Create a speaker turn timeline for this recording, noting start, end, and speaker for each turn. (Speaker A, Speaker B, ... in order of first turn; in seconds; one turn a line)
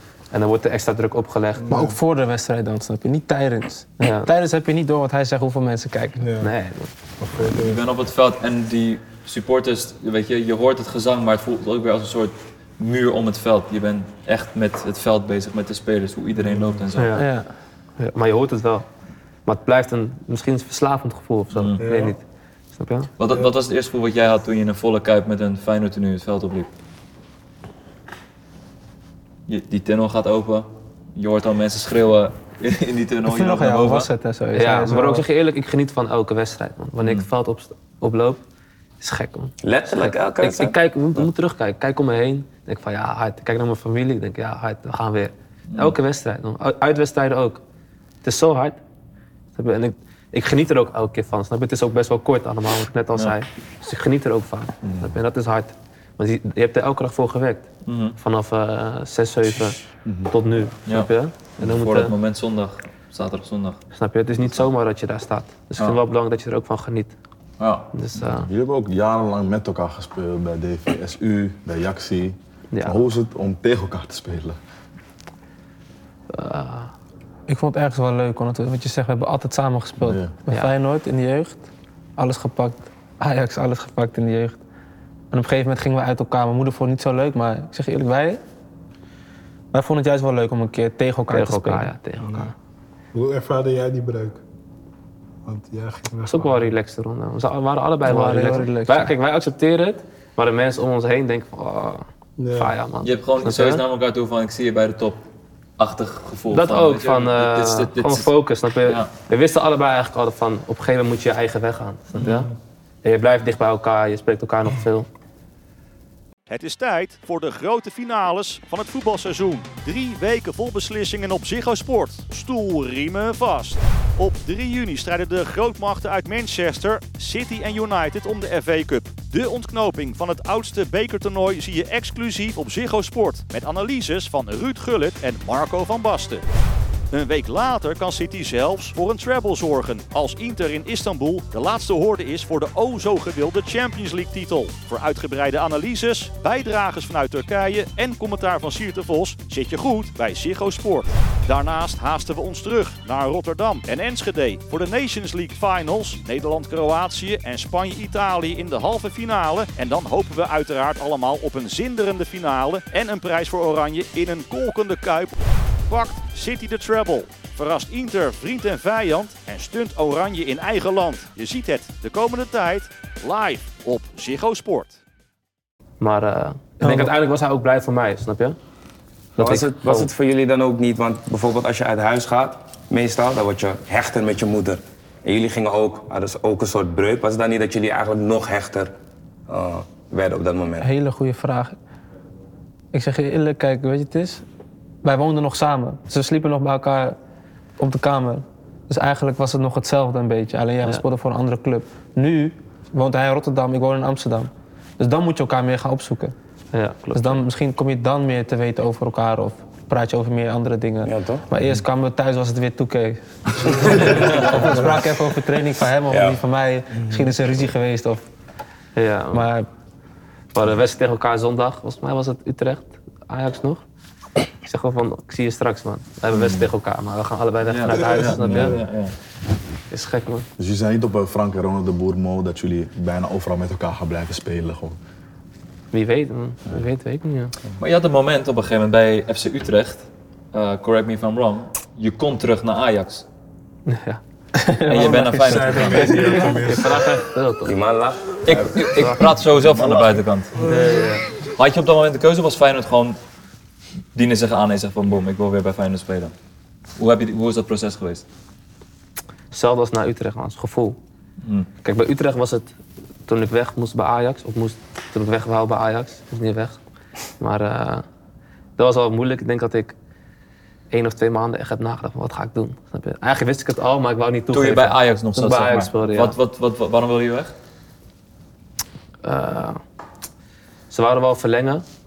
Speaker A: 0.3-1.6
Speaker B: 1.6-2.0
Speaker C: 1.7-6.2
Speaker A: 4.0-4.3
Speaker B: 6.2-6.5
Speaker A: 6.4-6.9
Speaker B: 7.2-7.8
Speaker D: 7.4-17.2
Speaker B: 16.4-16.8
Speaker A: 16.9-17.3
Speaker C: 17.1-17.5
Speaker A: 18.0-18.9
Speaker A: 19.4-22.2
Speaker D: 21.5-21.8
Speaker B: 21.8-22.1
Speaker A: 22.8-23.1
Speaker D: 23.2-26.7
Speaker D: 29.5-34.1
Speaker C: 33.2-35.2
Speaker A: 34.5-38.4
Speaker D: 37.0-37.3
Speaker A: 39.0-47.6
Speaker E: 39.6-41.2
Speaker D: 45.7-45.9
Speaker A: 48.2-48.8
Speaker A: 49.5-57.7
Speaker F: 54.8-55.2
Speaker D: 57.9-58.2
Speaker A: 58.2-62.1
Speaker F: 60.0-60.3
Speaker D: 61.6-63.8
Speaker A: 63.9-67.1
Speaker D: 67.6-67.9
Speaker A: 67.9-68.5
Speaker F: 68.2-74.6
Speaker A: 72.7-73.0
Speaker A: 76.3-76.9
Speaker C: 77.5-84.6
Speaker F: 80.0-80.3
Speaker C: 85.3-88.4
Speaker C: 89.7-91.9
Speaker A: 91.3-92.5
Speaker B: 92.2-92.5
Speaker B: 93.1-94.4
Speaker B: 95.5-96.6
Speaker A: 96.3-103.8
Speaker C: 98.0-99.1
Speaker B: 102.4-102.8
Speaker D: 103.0-105.2
Speaker D: 105.8-108.3
Speaker A: 106.5-112.5
Speaker D: 108.8-109.1
Speaker D: 112.1-112.5
Speaker B: 112.2-112.5
Speaker A: 113.0-115.1
Speaker G: 116.5-136.4
Speaker G: 137.1-175.0
Speaker A: 176.0-178.6
Speaker C: 176.8-177.1
Speaker A: 179.4-180.1
Speaker E: 179.4-188.9
Speaker E: 189.5-190.9
Speaker C: 190.8-191.8
Speaker C: 192.9-194.4
Speaker C: 195.0-197.2
Speaker C: 197.8-206.3
Speaker A: 206.7-207.4
Speaker C: 207.1-218.2
Speaker E: 211.0-211.4
Speaker E: 216.1-216.4
Speaker A: 218.9-219.5
Speaker C: 219.3-219.7
Speaker A: 220.5-223.8
Speaker A: 224.6-228.8
Speaker F: 226.3-226.7
Speaker D: 227.6-229.1
Speaker F: 228.1-228.8
Speaker A: 229.9-230.5
Speaker F: 230.6-235.0
Speaker A: 235.9-237.5
Speaker D: 237.8-243.2
Speaker A: 243.9-244.2
Speaker C: 244.6-246.6
Speaker D: 244.9-246.5
Speaker B: 245.4-247.2
Speaker A: 246.0-247.8
Speaker E: 247.7-248.8
Speaker D: 248.4-250.6
Speaker A: 248.9-249.3
Speaker F: 249.6-250.2
Speaker B: 250.6-251.1
Speaker A: 250.6-251.2
Speaker D: 251.5-253.2
Speaker D: 254.1-256.3
Speaker D: 257.0-258.2
Speaker A: 259.5-261.0
Speaker D: 261.4-261.7
Speaker A: 261.8-262.7
Speaker A: 263.3-266.8
Speaker A: 267.4-268.0
Speaker A: 268.8-269.9
Speaker A: 270.9-276.4
Speaker D: 274.5-277.5
Speaker A: 279.2-279.8
Speaker A: 280.9-281.8